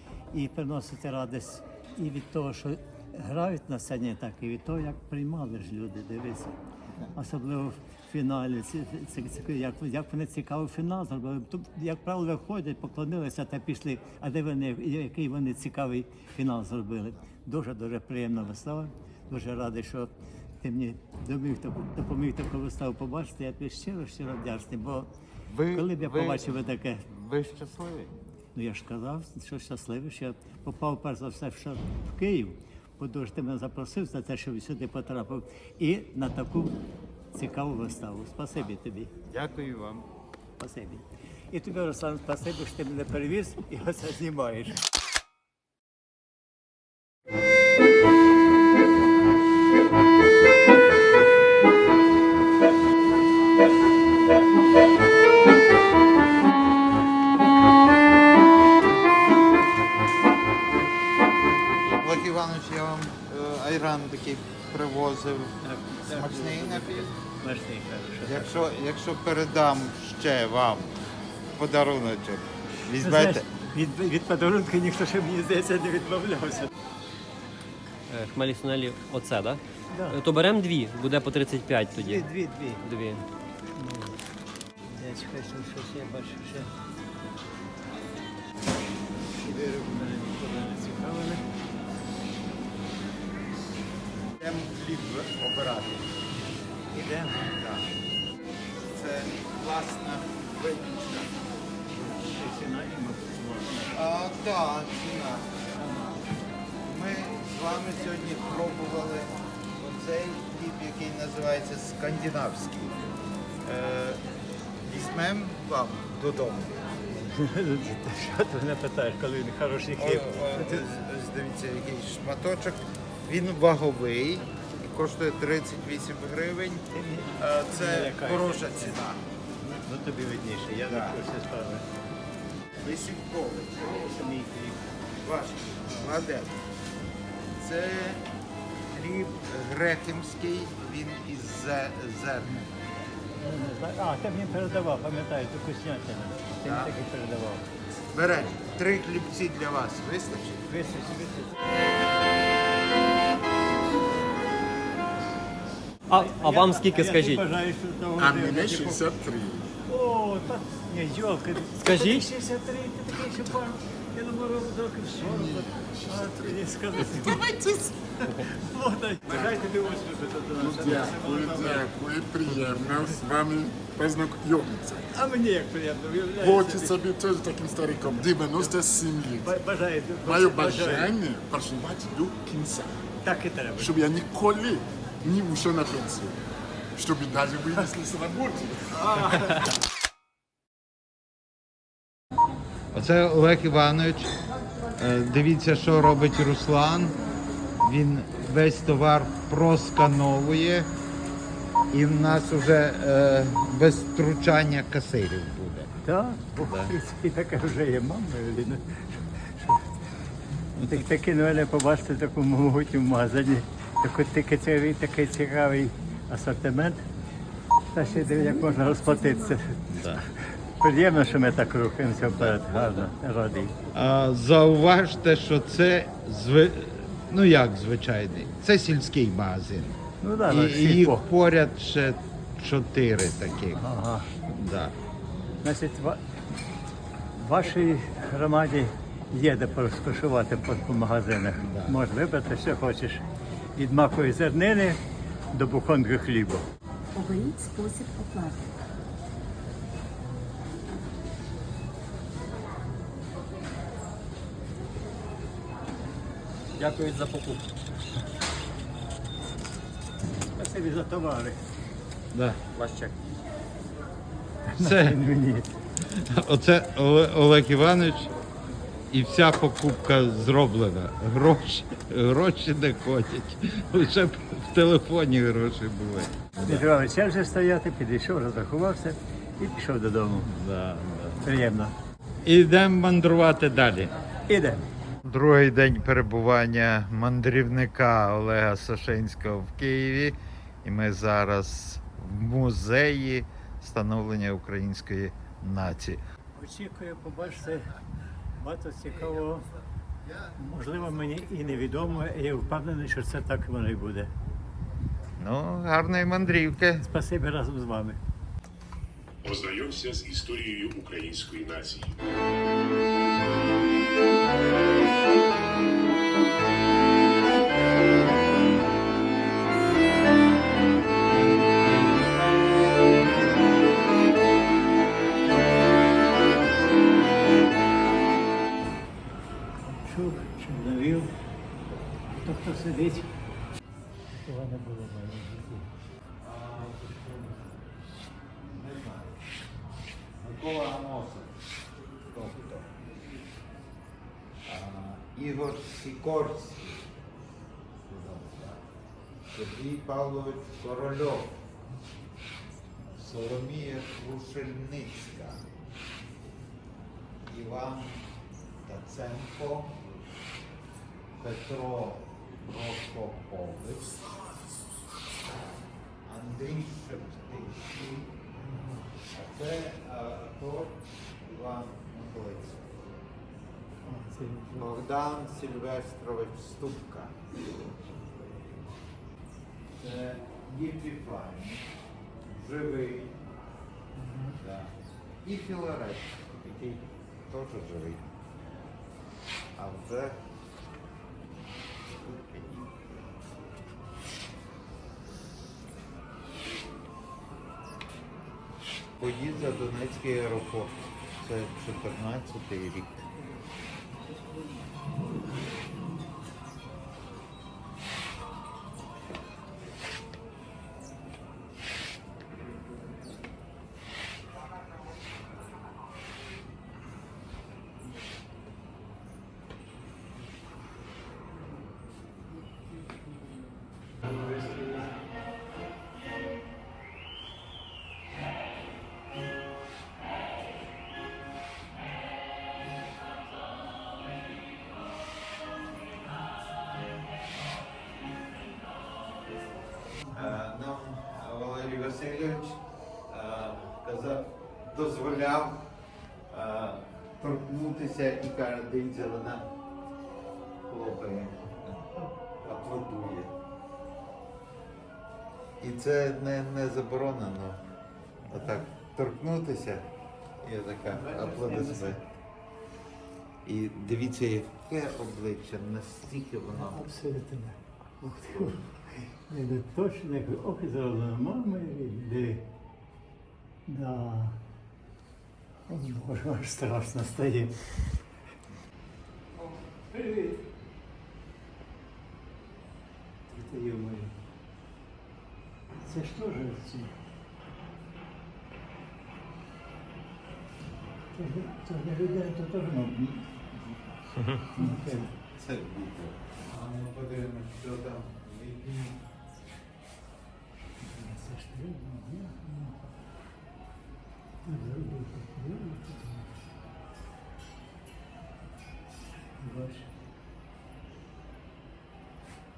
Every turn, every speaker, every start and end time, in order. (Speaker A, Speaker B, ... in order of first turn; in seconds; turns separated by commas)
Speaker A: 0.3-6.5, Speaker A: 7.1-20.1, Speaker A: 20.6-25.1, Speaker B: 25.5-28.1, Speaker A: 25.7-27.0, Speaker A: 28.5-36.8, Speaker A: 37.3-39.1, Speaker B: 39.3-40.1, Speaker A: 40.6-44.8, Speaker B: 61.9-67.1, Speaker A: 65.6-68.5, Speaker B: 68.2-71.0, Speaker B: 71.5-73.5, Speaker A: 72.9-76.7, Speaker C: 78.1-82.3, Speaker A: 79.9-80.2, Speaker A: 82.0-82.8, Speaker C: 82.8-83.2, Speaker A: 83.8-84.2, Speaker A: 84.9-86.7, Speaker A: 89.4-91.4, Speaker B: 94.4-96.1, Speaker A: 96.9-97.4, Speaker B: 97.2-98.0, Speaker B: 98.8-101.3, Speaker A: 102.0-104.0, Speaker B: 103.9-106.2, Speaker B: 106.8-113.0, Speaker B: 113.6-114.2, Speaker B: 114.8-116.9, Speaker A: 117.3-120.9, Speaker B: 120.0-129.2, Speaker A: 126.9-128.9, Speaker A: 129.6-131.8, Speaker B: 130.8-131.2, Speaker B: 132.8-136.6, Speaker B: 137.6-138.3, Speaker B: 138.9-142.7, Speaker A: 143.4-147.7, Speaker B: 146.6-146.9, Speaker B: 148.1-150.7, Speaker A: 150.7-151.6, Speaker C: 156.1-157.4, Speaker A: 156.1-159.1, Speaker D: 158.2-159.7, Speaker A: 159.9-171.9, Speaker C: 161.8-162.3, Speaker D: 165.2-167.4, Speaker D: 170.6-175.1, Speaker A: 172.5-173.2, Speaker A: 175.1-177.1, Speaker D: 176.3-179.5, Speaker A: 178.1-178.8, Speaker A: 179.4-181.1, Speaker D: 180.2-182.9, Speaker A: 183.2-183.9, Speaker D: 183.8-186.4, Speaker D: 186.9-189.5, Speaker A: 189.0-189.6, Speaker B: 192.9-194.3, Speaker B: 194.9-197.2, Speaker B: 197.8-200.9, Speaker B: 201.9-205.9, Speaker A: 206.0-209.8, Speaker B: 206.6-206.9, Speaker B: 210.8-211.0, Speaker A: 210.9-217.0, Speaker A: 217.9-220.2, Speaker E: 218.1-219.6, Speaker B: 219.9-220.2, Speaker A: 220.8-223.7, Speaker B: 222.2-222.8, Speaker B: 223.9-233.8, Speaker A: 230.2-231.2, Speaker A: 233.7-234.3, Speaker B: 234.4-234.9, Speaker A: 235.6-236.2, Speaker A: 237.4-243.2, Speaker B: 241.6-241.9, Speaker A: 243.8-245.0, Speaker A: 245.5-246.7, Speaker E: 247.1-248.8, Speaker C: 256.8-257.6, Speaker A: 260.5-261.6, Speaker B: 262.3-262.6, Speaker C: 262.7-263.1, Speaker A: 264.7-265.7, Speaker B: 264.8-265.2, Speaker B: 266.1-268.3, Speaker B: 269.1-276.9, Speaker A: 276.6-280.5, Speaker B: 280.4-281.4, Speaker A: 281.4-281.9, Speaker B: 282.4-284.1, Speaker A: 284.5-284.8, Speaker B: 285.2-296.2, Speaker A: 296.5-297.9, Speaker A: 298.6-299.6, Speaker A: 300.5-304.3, Speaker B: 305.4-307.0, Speaker A: 307.0-308.2, Speaker F: 309.4-312.1, Speaker A: 329.9-331.3, Speaker A: 332.3-333.3, Speaker A: 334.3-335.9, Speaker B: 336.4-337.8, Speaker B: 338.7-339.4, Speaker B: 340.4-341.6, Speaker B: 342.2-342.9, Speaker B: 344.6-347.1, Speaker B: 348.1-348.8, Speaker B: 349.5-351.6, Speaker B: 353.1-355.6, Speaker B: 357.4-358.3, Speaker B: 358.8-360.0, Speaker B: 361.4-364.3, Speaker B: 366.2-368.5, Speaker A: 368.6-369.0, Speaker B: 369.1-373.2, Speaker A: 374.0-374.9, Speaker B: 374.7-378.9, Speaker B: 380.0-381.9, Speaker B: 382.5-383.4, Speaker A: 384.1-384.6, Speaker B: 384.6-388.3, Speaker B: 389.8-390.4, Speaker B: 392.2-393.4, Speaker B: 399.0-403.2, Speaker A: 424.2-425.1, Speaker B: 440.3-445.8, Speaker B: 446.5-449.7, Speaker B: 450.9-452.1, Speaker B: 452.6-453.5, Speaker B: 455.8-457.8, Speaker B: 458.4-460.1, Speaker B: 460.6-462.2, Speaker A: 461.1-462.2, Speaker B: 463.6-467.0, Speaker A: 466.7-472.6, Speaker A: 473.9-474.6, Speaker A: 475.9-477.8, Speaker A: 479.6-480.6, Speaker A: 483.5-484.3, Speaker A: 486.0-487.1, Speaker A: 491.3-493.5, Speaker A: 494.7-495.3, Speaker B: 495.1-499.2, Speaker A: 501.0-503.0, Speaker A: 504.6-506.5, Speaker A: 509.6-510.1